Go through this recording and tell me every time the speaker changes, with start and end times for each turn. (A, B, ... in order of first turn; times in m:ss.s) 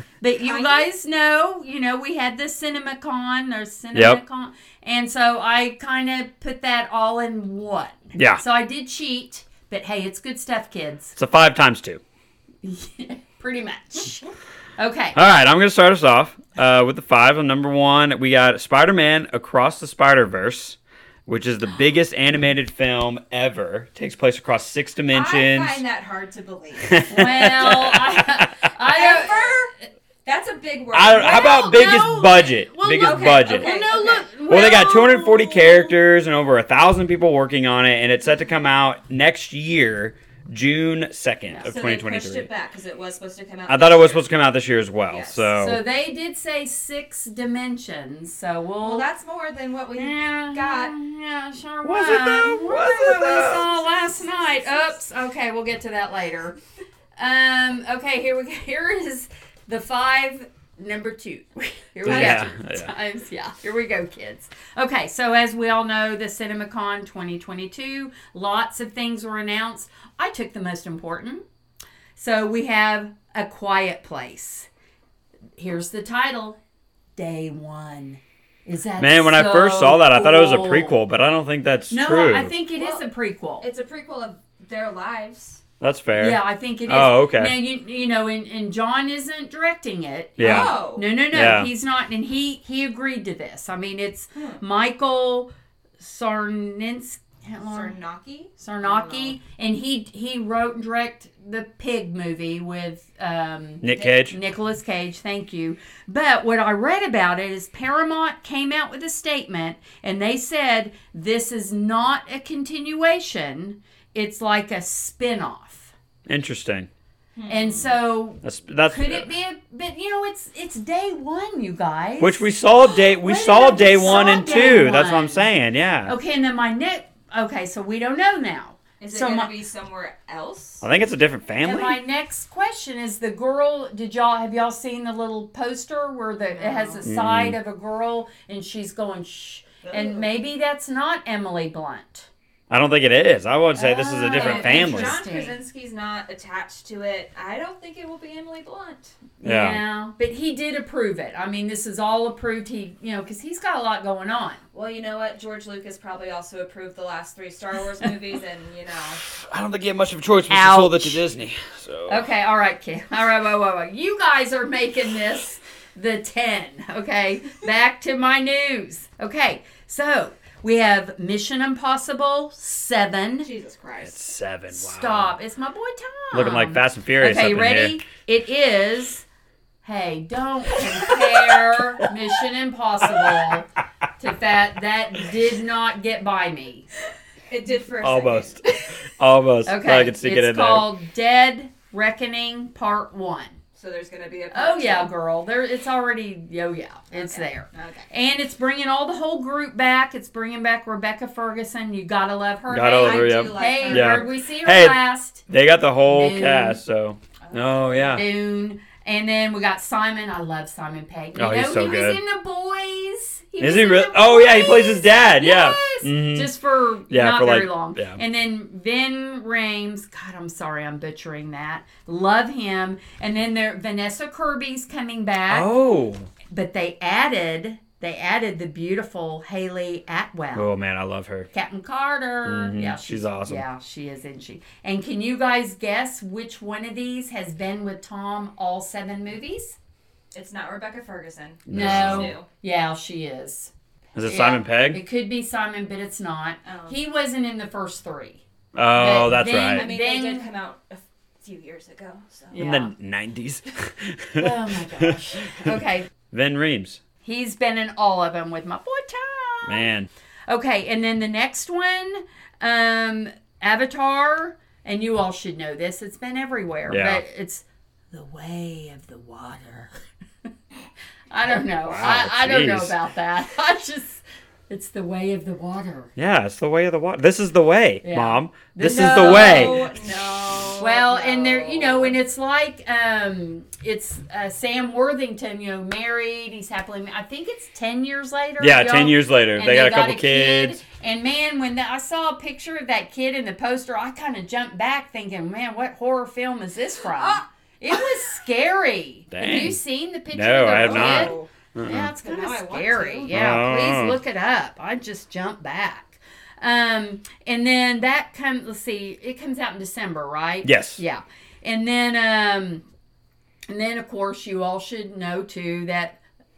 0:00.2-0:11.2 A
0:00.4-0:00.9 B
0:03.9-0:04.2 C
0:08.2-0:08.4 C
0:11.2-0:12.0 C
0:12.6-0:15.2 A
0:15.2-0:25.8 C
0:25.1-0:27.1 B
0:26.8-0:28.7 C
0:27.0-0:29.6 A
0:28.8-0:29.7 B
0:30.2-0:31.8 B
0:30.9-0:33.8 C
0:31.2-0:36.0 A
0:33.0-0:34.3 B
0:34.5-0:42.5 C
0:41.7-0:44.2 B
0:43.7-0:45.8 C
0:45.1-0:45.5 B
0:45.6-0:49.1 A
0:48.8-0:50.9 B
0:50.0-0:56.6 A
0:51.8-0:53.7 C
0:53.3-0:55.0 B
0:57.2-1:11.4 A
1:02.0-1:02.9 C
1:02.1-1:02.4 B
1:12.2-1:14.7 A
1:15.6-1:16.6 A
1:17.2-1:21.0 A
1:19.0-1:22.5 C
1:21.9-1:23.6 A
1:22.8-1:23.0 B
1:23.6-1:25.6 B
1:25.8-1:27.6 C
1:26.2-1:38.0 A
1:30.4-1:30.8 C
1:30.4-1:31.0 B
1:31.3-1:31.7 C
1:34.4-1:34.6 B
1:37.6-1:39.4 B
1:38.6-1:55.9 A
1:43.8-1:44.4 C
1:56.3-1:56.9 C
1:57.4-1:58.0 B
1:57.5-2:05.5 A
1:58.4-1:59.3 C
2:02.2-2:06.1 C
2:04.2-2:04.7 B
2:06.1-2:09.5 A
2:09.0-2:10.9 B
2:10.8-2:12.0 C
2:11.6-2:22.3 A
2:16.4-2:17.1 B
2:17.0-2:17.6 C
2:19.8-2:20.3 B
2:22.7-2:25.2 C
2:23.8-2:25.6 A
2:24.3-2:29.2 B
2:29.4-2:34.6 A
2:29.4-2:29.8 C
2:34.7-2:39.2 B
2:39.3-2:42.3 C
2:40.5-2:41.2 A
2:42.1-2:53.5 A
2:53.4-2:54.2 B
2:54.0-2:55.3 C
2:54.7-2:59.2 A
2:56.3-2:58.0 C
2:59.8-3:03.7 A
3:03.2-3:03.6 C
3:04.2-3:06.9 A
3:07.5-3:09.0 B
3:08.0-3:08.6 C
3:09.2-3:10.9 C
3:09.7-3:13.6 A
3:13.8-3:15.1 B
3:14.5-3:25.4 A
3:17.1-3:18.1 B
3:22.7-3:28.2 C
3:22.7-3:24.4 B
3:26.0-3:26.8 A
3:27.4-3:28.2 B
3:28.1-3:45.7 A
3:31.4-3:32.2 C
3:33.6-3:36.5 C
3:37.1-3:38.2 C
3:45.5-3:46.3 C
3:46.5-3:50.7 A
3:50.5-3:51.5 C
3:51.5-3:59.8 A
3:52.4-3:53.6 C
4:00.3-4:02.5 B
4:01.7-4:02.4 C
4:01.7-4:03.7 A
4:04.2-4:05.0 C
4:04.2-4:08.4 A
4:06.6-4:07.0 B
4:08.8-4:09.9 C
4:09.0-4:10.5 A
4:09.7-4:12.6 B
4:12.5-4:12.9 A
4:12.6-4:15.8 C
4:14.4-4:16.1 A
4:16.3-4:17.0 C
4:17.2-4:19.9 A
4:19.7-4:20.1 C
4:20.5-4:29.9 A
4:26.9-4:27.2 C
4:31.3-4:36.1 A
4:31.9-4:33.0 C
4:36.2-4:39.9 C
4:38.0-4:39.9 A
4:38.8-4:42.2 B
4:40.8-5:12.8 A
4:48.6-4:50.8 C
4:57.1-4:58.1 B
4:59.3-4:59.8 C
5:00.3-5:02.1 C
5:00.7-5:03.3 B
5:03.3-5:04.2 C
5:10.6-5:11.0 C
5:13.7-5:16.2 A